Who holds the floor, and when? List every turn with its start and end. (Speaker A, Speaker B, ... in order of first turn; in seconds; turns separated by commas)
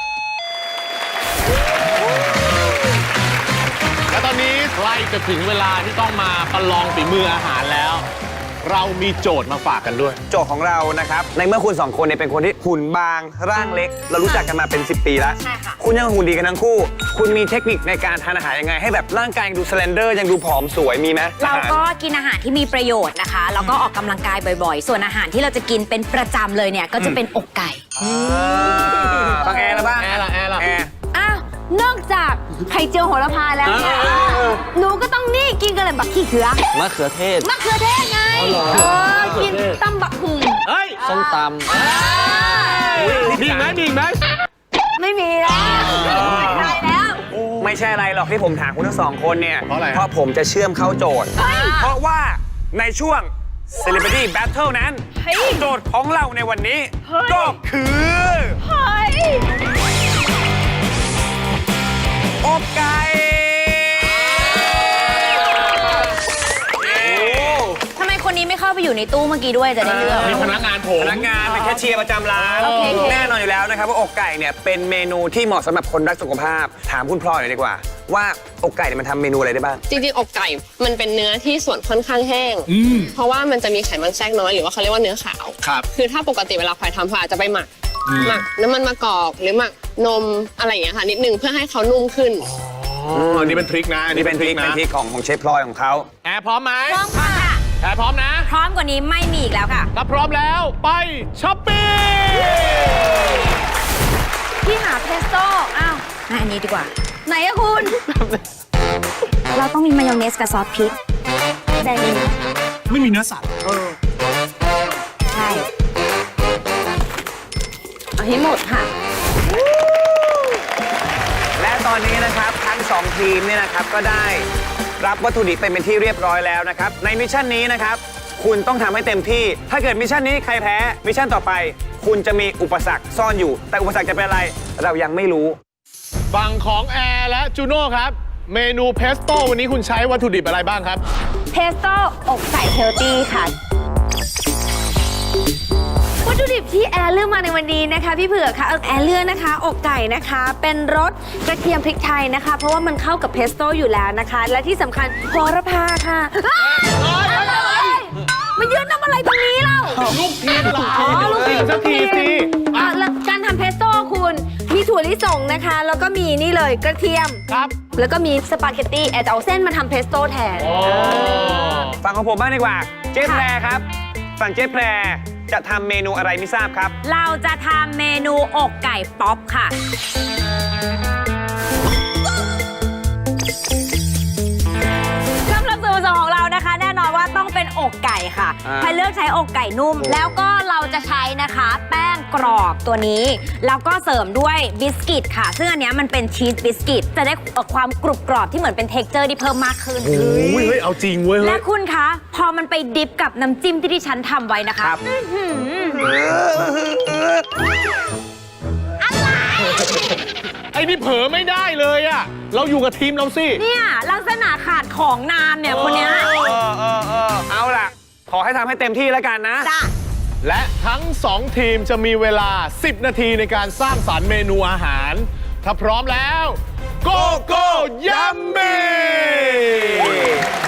Speaker A: 4.1-8.1, Speaker A: 8.6-10.2, Speaker B: 10.3-21.8, Speaker C: 15.4-15.8, Speaker C: 21.4-27.8, Speaker A: 28.0-30.6, Speaker B: 28.4-30.9, Speaker D: 31.1-36.6, Speaker E: 33.7-34.6, Speaker E: 36.7-37.5, Speaker D: 37.4-43.2, Speaker E: 38.3-39.8, Speaker A: 40.6-41.0, Speaker E: 41.0-41.7, Speaker A: 41.7-44.2, Speaker B: 42.9-43.8, Speaker D: 45.0-47.2, Speaker A: 45.8-46.2, Speaker B: 46.0-46.8, Speaker A: 47.3-47.6, Speaker B: 47.6-58.6, Speaker A: 49.7-50.0, Speaker D: 51.4-51.9, Speaker D: 55.2-55.6, Speaker D: 57.1-57.5, Speaker D: 58.6-59.5, Speaker B: 62.4-66.0, Speaker B: 66.8-67.8, Speaker A: 67.2-67.6, Speaker C: 67.9-70.5, Speaker B: 69.8-79.8, Speaker A: 69.8-71.3, Speaker C: 71.5-71.8, Speaker A: 72.4-73.2, Speaker C: 72.6-73.3, Speaker F: 79.9-92.5, Speaker A: 82.7-83.1, Speaker A: 85.6-85.9, Speaker A: 88.1-88.4, Speaker A: 92.4-94.8, Speaker B: 93.1-96.1, Speaker A: 96.2-97.2, Speaker C: 96.9-97.6, Speaker D: 97.2-97.5, Speaker A: 97.8-98.5, Speaker C: 98.5-99.9, Speaker A: 100.0-103.4, Speaker D: 104.6-106.0, Speaker C: 106.2-106.9, Speaker D: 107.3-108.0, Speaker C: 109.5-111.0, Speaker C: 111.8-112.3, Speaker A: 112.9-113.6, Speaker C: 115.3-115.7, Speaker C: 118.2-118.8, Speaker D: 118.4-118.9, Speaker B: 121.6-124.5, Speaker B: 125.0-135.6, Speaker A: 136.3-141.0, Speaker D: 141.5-143.5, Speaker D: 146.2-171.9, Speaker A: 156.7-158.0, Speaker A: 159.9-163.0, Speaker A: 167.5-167.8, Speaker A: 170.6-171.9, Speaker B: 172.0-173.9, Speaker C: 173.2-173.5, Speaker B: 174.4-177.0, Speaker C: 177.0-179.8, Speaker C: 185.5-200.2, Speaker B: 188.7-189.0, Speaker B: 190.0-190.4, Speaker A: 200.0-201.6, Speaker B: 200.1-200.8, Speaker C: 201.4-206.0, Speaker B: 205.9-207.6, Speaker C: 209.0-210.0, Speaker A: 209.8-210.1, Speaker A: 210.7-213.6, Speaker C: 213.6-216.3, Speaker A: 215.7-216.5, Speaker B: 216.1-219.7, Speaker C: 219.6-219.9, Speaker A: 220.4-230.4, Speaker B: 227.1-230.5